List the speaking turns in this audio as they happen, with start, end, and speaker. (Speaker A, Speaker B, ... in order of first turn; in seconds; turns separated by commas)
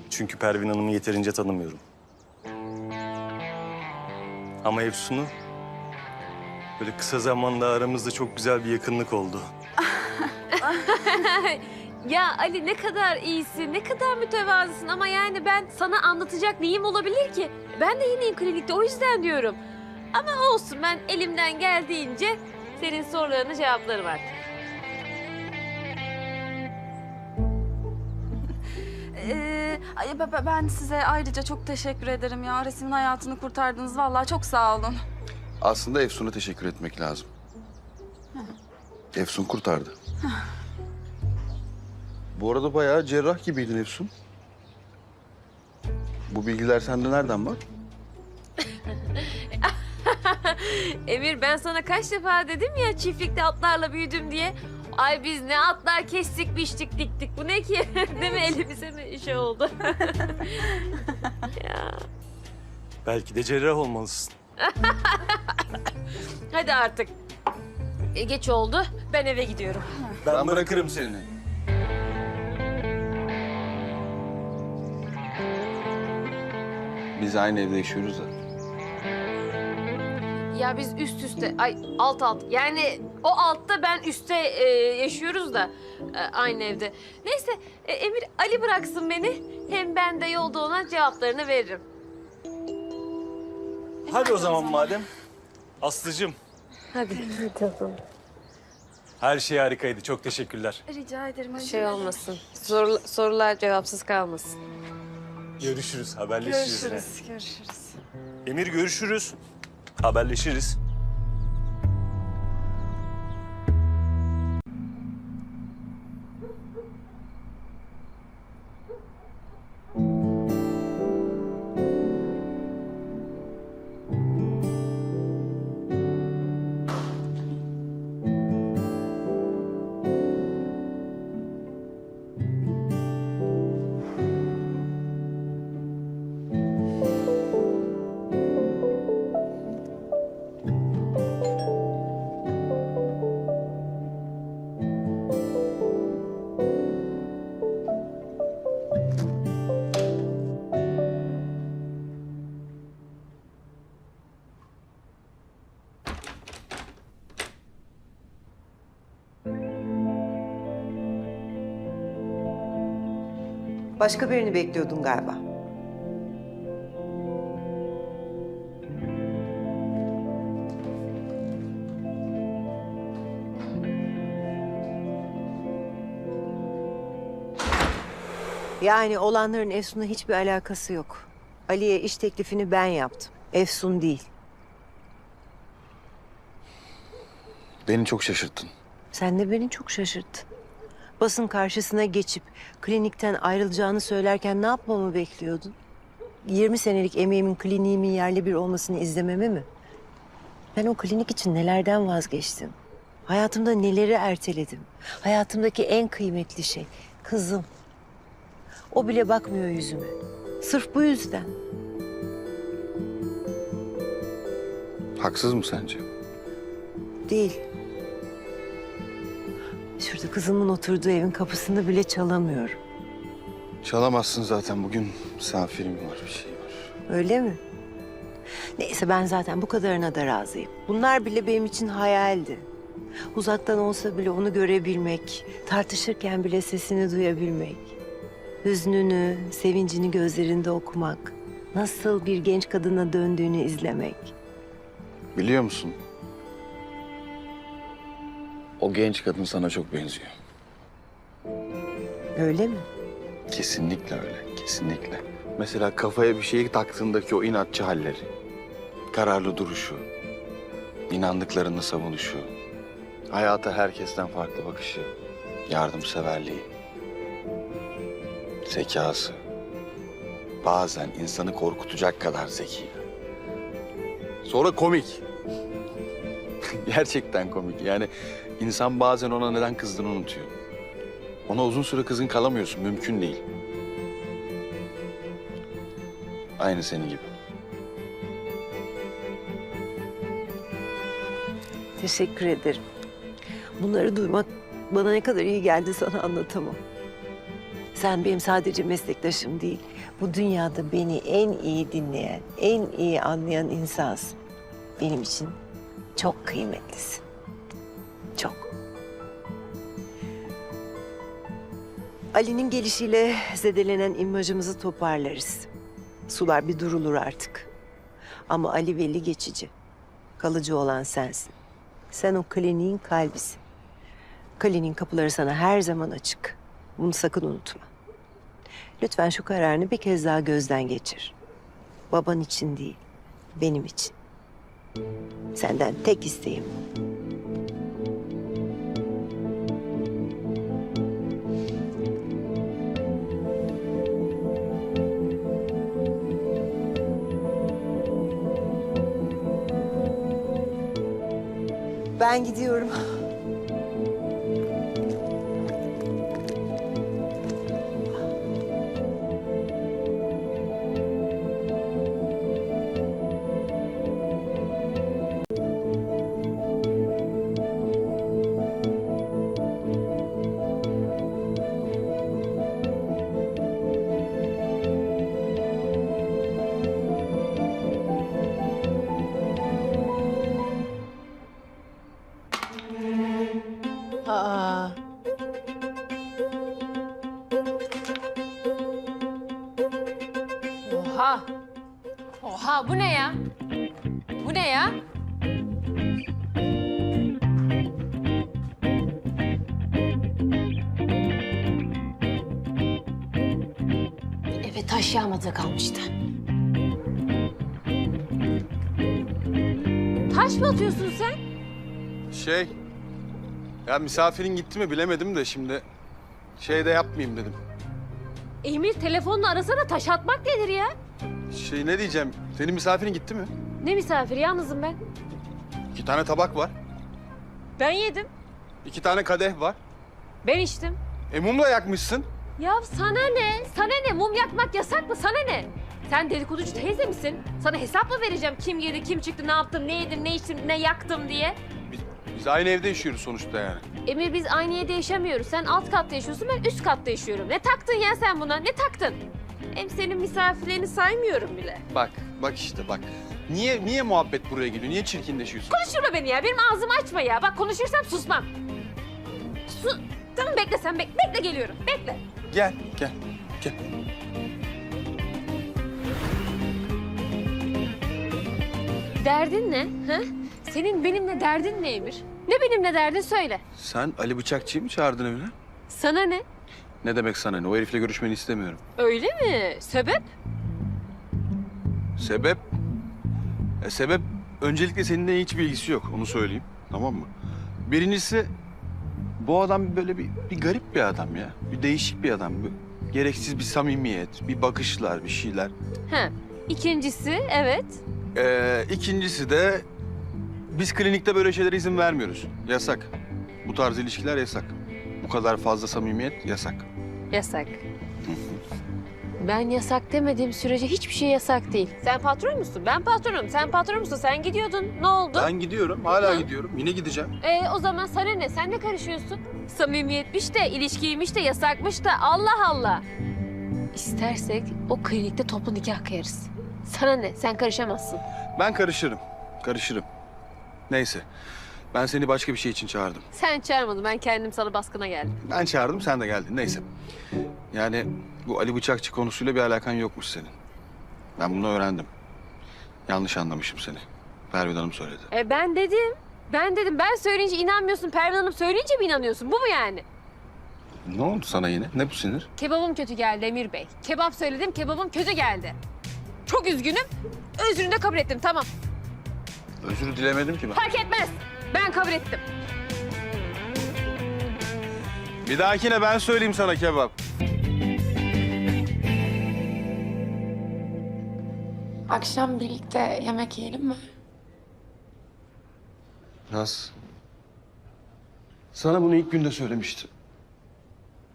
Speaker A: 0.1-1.8, Speaker A: 4.6-5.3, Speaker A: 6.8-9.5, Speaker B: 9.8-11.1, Speaker C: 10.5-19.6, Speaker C: 20.1-24.3, Speaker B: 29.1-35.0, Speaker D: 35.6-37.3, Speaker D: 39.1-39.9, Speaker D: 42.3-44.1, Speaker D: 46.3-47.6, Speaker C: 49.1-61.0, Speaker C: 61.6-62.0, Speaker A: 63.0-64.3, Speaker C: 64.6-65.5, Speaker C: 66.5-67.1, Speaker C: 68.1-69.9, Speaker A: 70.2-71.1, Speaker D: 70.2-71.3, Speaker D: 77.1-78.3, Speaker C: 80.5-91.8, Speaker A: 94.1-95.1, Speaker B: 94.1-94.9, Speaker A: 95.8-96.3, Speaker C: 96.9-98.0, Speaker A: 99.2-100.8, Speaker B: 100.9-102.2, Speaker C: 101.6-104.6, Speaker A: 105.6-107.1, Speaker B: 106.4-108.0, Speaker A: 108.4-109.3, Speaker A: 110.0-110.8, Speaker E: 164.0-165.4, Speaker E: 178.8-184.3, Speaker D: 187.8-188.7, Speaker E: 189.1-190.4, Speaker E: 191.2-195.7, Speaker E: 196.4-199.7, Speaker E: 200.7-207.7, Speaker E: 208.9-211.5, Speaker D: 215.2-216.0, Speaker E: 217.3-217.6, Speaker E: 220.0-222.8, Speaker D: 223.8-226.9, Speaker E: 227.1-227.6, Speaker E: 228.8-232.7, Speaker E: 233.3-237.9, Speaker E: 238.6-244.3, Speaker D: 245.3-246.0, Speaker D: 248.8-250.3, Speaker E: 252.3-252.9, Speaker D: 253.5-258.3, Speaker D: 259.1-260.1, Speaker D: 261.1-262.5, Speaker D: 263.3-265.1, Speaker D: 265.7-266.7, Speaker D: 268.6-269.4, Speaker D: 270.6-273.0, Speaker D: 274.4-275.2, Speaker D: 276.8-280.5, Speaker D: 281.5-283.4, Speaker D: 286.6-287.3, Speaker E: 292.0-292.8, Speaker E: 293.8-296.8, Speaker E: 297.9-304.4, Speaker E: 305.0-305.6, Speaker E: 306.1-307.2, Speaker E: 308.4-308.6, Speaker E: 312.3-315.7, Speaker E: 316.3-317.7, Speaker E: 318.5-319.7, Speaker E: 320.4-321.5, Speaker E: 322.1-323.6, Speaker E: 324.6-327.9, Speaker E: 329.0-331.3, Speaker E: 332.1-333.0, Speaker E: 333.5-334.1, Speaker E: 335.5-336.8, Speaker E: 352.2-353.0, Speaker C: 384.2-384.9, Speaker C: 390.9-391.5, Speaker C: 392.4-393.4, Speaker C: 394.4-394.9, Speaker C: 404.6-406.1, Speaker C: 410.3-411.4, Speaker D: 412.3-412.7, Speaker D: 413.9-415.8, Speaker D: 416.6-417.6, Speaker C: 418.6-420.9, Speaker D: 421.5-423.5, Speaker C: 423.8-425.0, Speaker D: 425.9-426.7, Speaker C: 427.8-428.3, Speaker D: 428.8-429.8, Speaker C: 430.4-431.0, Speaker D: 431.3-432.3, Speaker C: 432.6-441.6, Speaker D: 441.9-443.8, Speaker C: 444.1-449.2, Speaker C: 449.7-451.8, Speaker D: 451.9-455.8, Speaker C: 455.7-458.5, Speaker C: 459.7-462.2, Speaker D: 462.5-463.8, Speaker C: 469.2-473.6, Speaker D: 473.8-475.5, Speaker C: 475.9-476.4, Speaker D: 477.0-478.8, Speaker C: 479.0-480.2, Speaker D: 482.2-482.7, Speaker D: 483.8-487.3, Speaker D: 487.8-488.5, Speaker D: 489.4-495.7, Speaker C: 496.1-498.0, Speaker D: 498.3-499.9, Speaker D: 500.7-503.1, Speaker D: 503.6-506.9, Speaker C: 507.3-507.8, Speaker D: 508.2-508.6, Speaker C: 509.4-515.5, Speaker D: 515.3-517.3, Speaker C: 516.2-516.5, Speaker C: 517.4-523.0, Speaker C: 523.9-528.2, Speaker D: 528.6-530.1, Speaker D: 530.9-531.2, Speaker D: 531.9-533.2, Speaker C: 533.3-535.4, Speaker D: 535.4-536.9, Speaker D: 537.7-540.5, Speaker D: 541.4-542.1, Speaker D: 543.1-545.3, Speaker C: 545.3-550.0, Speaker D: 551.1-552.5, Speaker C: 552.6-555.8, Speaker C: 556.5-558.7, Speaker D: 559.8-560.8, Speaker C: 560.7-562.4, Speaker D: 565.4-567.1, Speaker F: 572.1-574.0, Speaker D: 576.5-576.9, Speaker D: 578.7-580.1